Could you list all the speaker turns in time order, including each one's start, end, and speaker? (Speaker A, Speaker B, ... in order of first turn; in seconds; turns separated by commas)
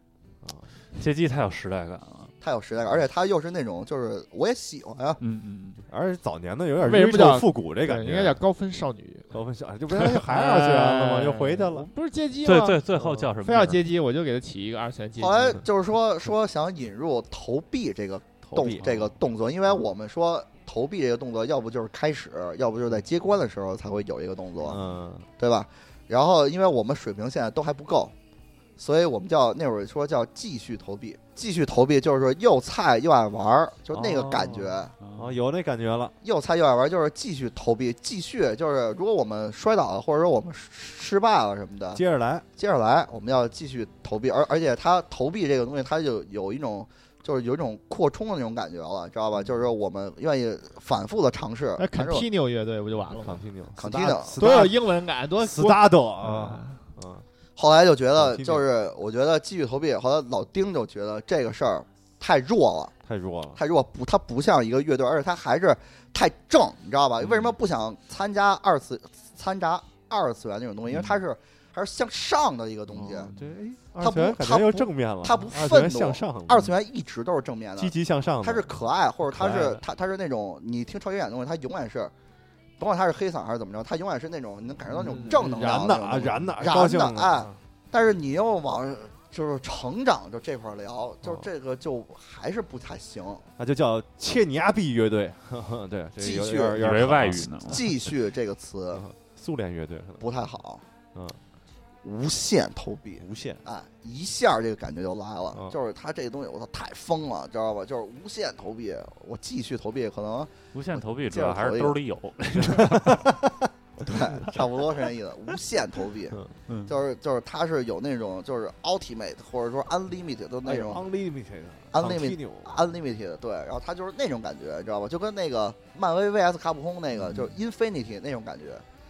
Speaker A: 0.4-0.7, Speaker B: 0.9-2.4, Speaker C: 2.4-5.2, Speaker B: 5.2-5.8, Speaker A: 5.9-8.4, Speaker D: 6.8-9.3, Speaker A: 9.3-11.9, Speaker D: 9.9-12.8, Speaker B: 12.4-13.8, Speaker A: 12.9-13.3, Speaker D: 13.4-15.6, Speaker C: 15.2-24.8, Speaker A: 18.5-19.0, Speaker B: 18.7-19.1, Speaker A: 24.6-25.3, Speaker C: 25.4-28.1, Speaker C: 28.8-34.9, Speaker A: 33.9-36.1, Speaker B: 35.0-35.4, Speaker C: 36.2-42.0, Speaker A: 41.9-42.5, Speaker C: 42.6-52.3, Speaker D: 51.8-53.4, Speaker A: 53.1-57.3, Speaker C: 53.8-54.6, Speaker D: 54.4-56.8, Speaker C: 57.6-62.9, Speaker A: 58.2-58.6, Speaker A: 63.0-63.6, Speaker C: 63.5-73.3, Speaker B: 70.9-71.2, Speaker A: 72.9-76.7, Speaker B: 73.0-73.5, Speaker C: 74.0-82.1, Speaker A: 77.8-78.7, Speaker B: 79.3-79.8, Speaker C: 82.8-93.4, Speaker A: 84.9-87.6, Speaker A: 93.6-98.1, Speaker C: 96.2-97.0, Speaker B: 96.8-97.9, Speaker C: 97.6-99.0, Speaker A: 98.9-100.3, Speaker C: 100.2-100.8, Speaker C: 102.0-112.0, Speaker A: 103.2-103.6, Speaker B: 110.7-113.3, Speaker A: 112.8-113.7, Speaker C: 114.0-121.0, Speaker B: 116.7-117.0, Speaker A: 120.6-122.8, Speaker C: 121.9-128.8, Speaker A: 127.2-127.5